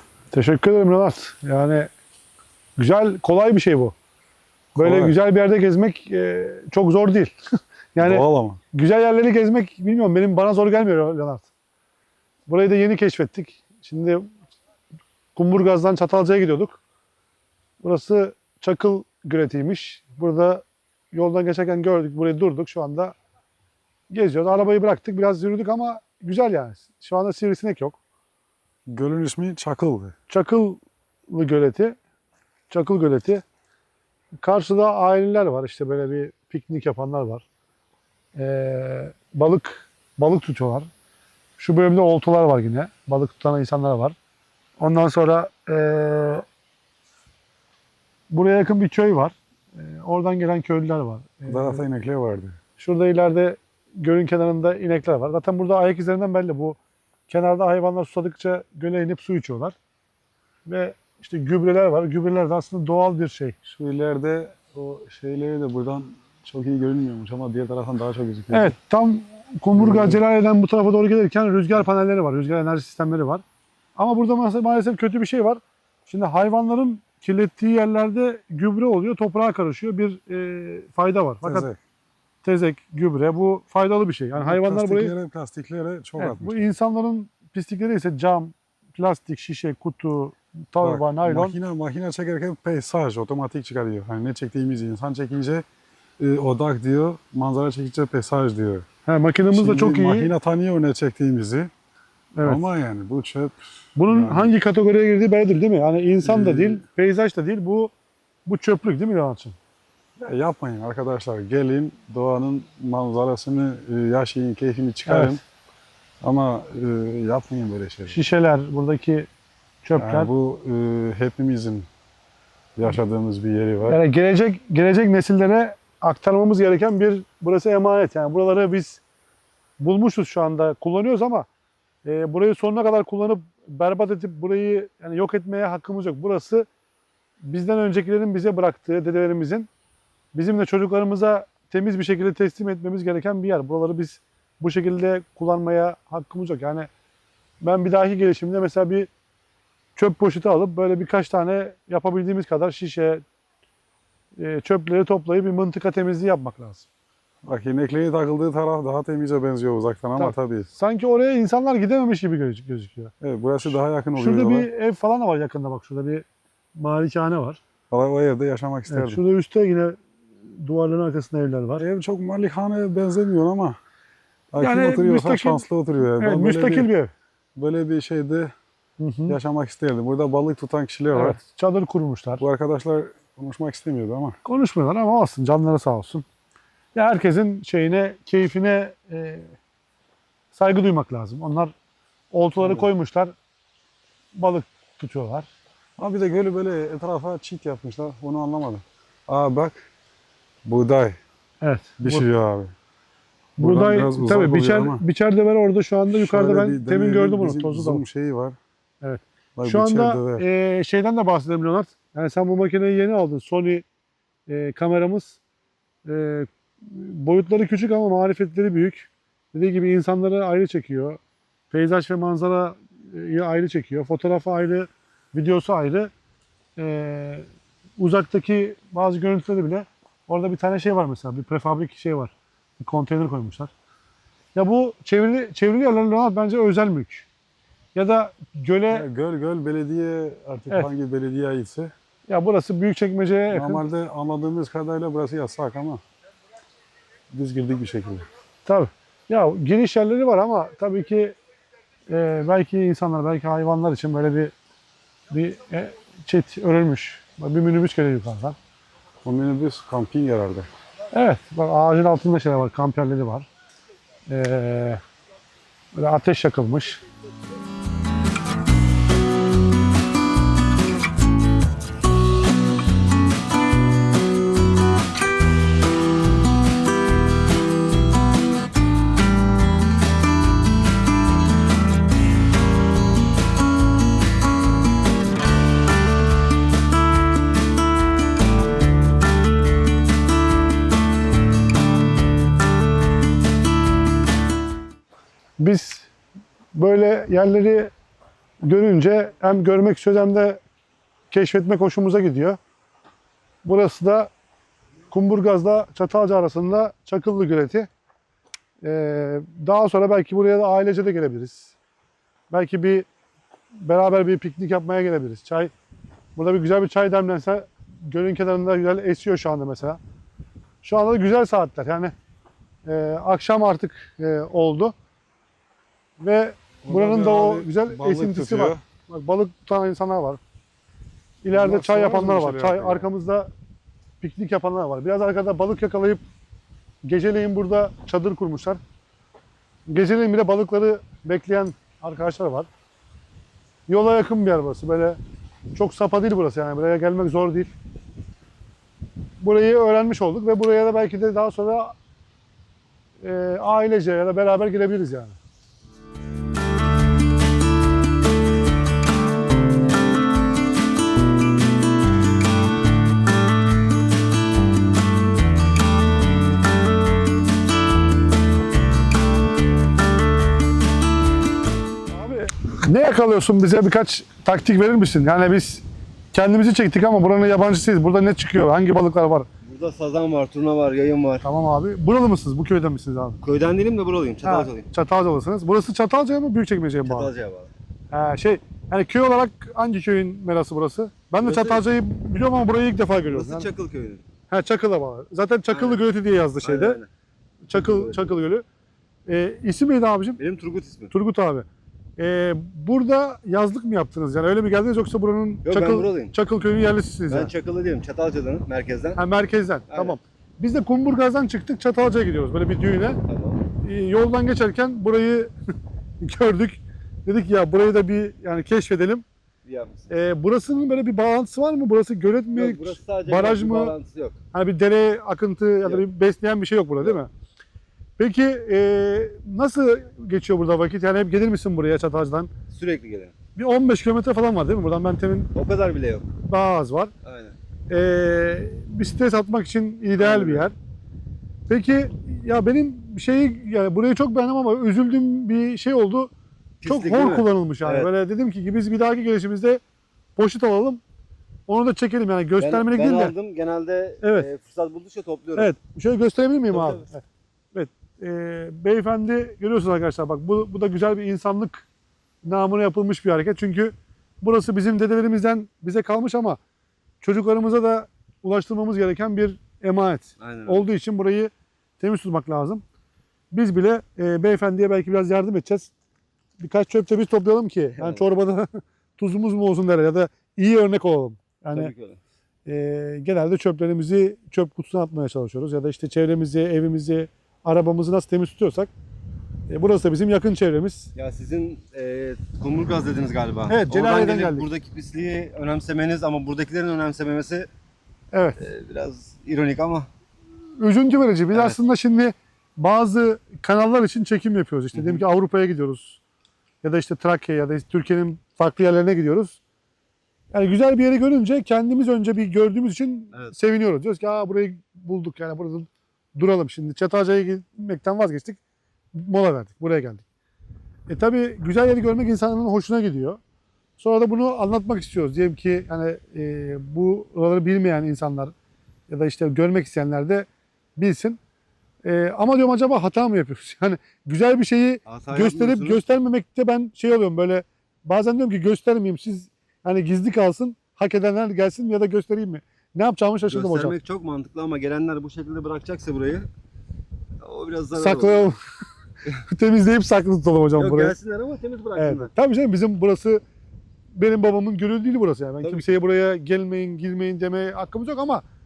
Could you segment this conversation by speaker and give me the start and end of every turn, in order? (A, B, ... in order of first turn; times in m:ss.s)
0:00.3-0:01.9 A
0:02.8-0:03.9 A
0:04.7-0:05.1 B
0:04.8-0:07.3 A
0:07.9-0:11.5 A
0:08.0-0:08.6 B
0:12.5-0:14.3 A
0:15.4-0:16.8 A
0:17.8-0:23.1 A
0:24.1-0:28.0 A
0:28.9-0:30.2 B
0:30.3-0:30.8 A
0:31.3-0:32.0 A
0:32.7-0:33.4 A
0:34.4-0:37.4 A
0:38.4-0:40.9 A
0:41.6-0:44.2 A
0:44.8-0:46.4 A
0:48.3-0:51.8 A
0:51.5-0:52.6 B
0:52.8-0:56.8 A
0:57.3-0:59.7 A
1:00.6-1:03.6 A
1:03.6-1:08.7 B
1:08.5-1:13.4 A
1:09.8-1:10.2 B
1:14.0-1:21.7 A
1:21.4-1:21.8 B
1:22.4-1:25.1 A
1:24.4-1:26.6 B
1:26.2-1:31.6 A
1:30.8-1:35.6 B
1:36.2-1:38.8 B
1:39.0-1:40.3 A
1:39.5-1:41.7 B
1:42.3-1:42.6 A
1:42.4-1:44.5 B
1:44.0-1:47.9 A
1:46.2-1:46.8 B
1:48.4-1:49.6 A
1:50.2-1:55.4 B
1:55.0-1:55.4 A
1:56.2-1:58.2 B
1:58.1-1:59.3 A
1:59.8-2:00.3 A
2:00.0-2:01.9 B
2:02.8-2:04.0 B
2:03.9-2:09.0 A
2:09.8-2:11.5 A
2:12.0-2:16.7 A
2:17.4-2:19.7 A
2:20.3-2:26.9 A
2:27.6-2:29.1 A
2:30.0-2:33.2 A
2:34.4-2:36.8 A
2:37.4-2:40.7 B
2:40.2-2:43.1 A
2:43.2-2:44.7 B
2:44.2-2:47.6 A
2:47.9-2:49.2 B
2:48.9-2:50.0 A
2:50.6-2:51.8 A
2:51.8-2:53.8 B
2:54.5-2:56.9 B
2:54.6-2:57.1 A
2:57.6-2:58.5 B
2:59.0-2:59.4 A
2:59.3-3:01.4 B
3:01.1-3:02.4 A
3:02.4-3:04.4 B
3:04.4-3:06.2 A
3:06.9-3:09.5 A
3:10.5-3:11.7 A
3:12.3-3:13.3 A
3:12.6-3:12.9 B
3:14.3-3:15.5 A
3:16.0-3:19.8 B
3:20.6-3:21.2 B
3:21.6-3:22.2 A
3:22.0-3:22.7 B
3:23.6-3:28.0 A
3:23.6-3:25.0 B
3:26.1-3:28.6 B
3:29.0-3:33.8 A
3:29.6-3:30.4 B
3:34.5-3:35.4 A
3:36.0-3:41.2 A
3:41.7-3:46.1 A
3:46.8-3:47.4 A
3:48.0-3:53.7 A
3:54.5-3:57.2 A
3:57.9-3:59.1 A
3:58.9-4:01.9 B
4:02.3-4:03.8 A
4:03.5-4:06.0 B
4:07.3-4:08.2 B
4:08.6-4:11.4 A
4:12.1-4:14.5 A
4:15.3-4:18.6 A
4:19.2-4:20.7 B
4:21.1-4:23.5 A
4:24.3-4:25.0 A
4:25.9-4:27.0 A
4:55.6-4:56.1 A
4:56.7-4:57.9 A
4:58.6-5:00.6 A
5:01.3-5:02.6 A
5:03.6-5:04.3 A
5:05.1-5:07.9 A
5:08.8-5:11.7 A
5:12.5-5:13.1 A
5:13.8-5:15.7 A
5:16.4-5:20.0 A
5:20.8-5:22.1 A
5:22.8-5:24.9 A
5:26.2-5:30.4 A
5:26.8-5:28.8 B
5:31.4-5:33.5 A
5:31.5-5:33.1 B
5:34.2-5:36.2 A
5:37.0-5:38.8 A
5:39.9-5:42.7 A
5:43.9-5:45.2 A
5:45.7-5:47.7 A
5:49.4-5:51.9 A
5:53.2-5:55.4 A
6:12.1-6:19.5 A
6:19.6-6:21.4 C
6:21.4-6:23.4 A
6:23.4-6:24.9 C
6:24.4-6:27.3 A
6:27.0-6:27.7 C
6:28.1-6:33.7 A
6:31.4-6:31.8 C
6:33.3-6:34.2 C
6:34.5-6:37.0 A
6:35.7-6:36.0 C
6:36.6-6:37.1 C
6:37.7-6:38.6 A
6:37.7-6:38.4 C
6:39.3-6:40.4 A
6:40.4-6:41.1 C
6:41.1-6:41.6 A
6:42.2-6:47.5 A
6:45.6-6:46.3 C
6:47.3-6:49.2 C
6:49.2-6:53.2 A
6:49.9-6:50.2 C
6:53.3-6:53.6 C
6:53.8-6:55.5 A
6:56.2-6:59.2 A
6:59.6-7:00.1 C
7:00.1-7:04.0 A
7:02.5-7:04.4 C
7:04.5-7:07.3 A
7:08.2-7:12.5 A
7:12.7-7:13.3 C
7:13.5-7:15.5 A
7:15.5-7:16.3 C
7:16.5-7:17.1 A
7:17.2-7:17.6 C
7:17.9-7:20.7 A
7:20.2-7:20.7 C
7:21.7-7:26.3 A
7:26.8-7:28.1 C
7:26.8-7:29.8 A
7:30.4-7:31.0 A
7:31.7-7:33.3 A
7:32.6-7:35.7 C
7:34.2-7:34.5 A
7:35.6-7:41.8 A
7:36.7-7:37.0 C
7:42.4-7:46.6 A
7:47.2-7:52.8 A
7:50.4-7:50.8 C
7:53.5-7:55.9 A
7:56.6-8:01.9 A
7:58.0-7:58.2 C
8:01.7-8:02.2 C
8:02.6-8:08.9 A
8:09.7-8:11.1 A
8:11.1-8:17.7 C
8:13.7-8:14.7 A
8:18.3-8:18.6 A
8:18.6-8:20.1 C
8:20.8-8:26.2 A
8:21.5-8:21.8 C
8:24.9-8:25.2 C
8:26.8-8:29.6 A
8:30.5-8:38.6 A
8:39.1-8:40.2 A
8:41.1-8:43.4 A
8:44.0-8:48.5 A
8:49.1-8:51.4 A
8:52.0-9:04.0 A
8:55.1-8:56.0 C
9:03.5-9:06.5 C
9:07.4-9:08.5 C
9:08.0-9:08.6 A
9:09.4-9:11.1 A
9:10.8-9:12.3 C
9:12.0-9:13.4 A
9:14.1-9:18.4 A
9:15.6-9:15.9 C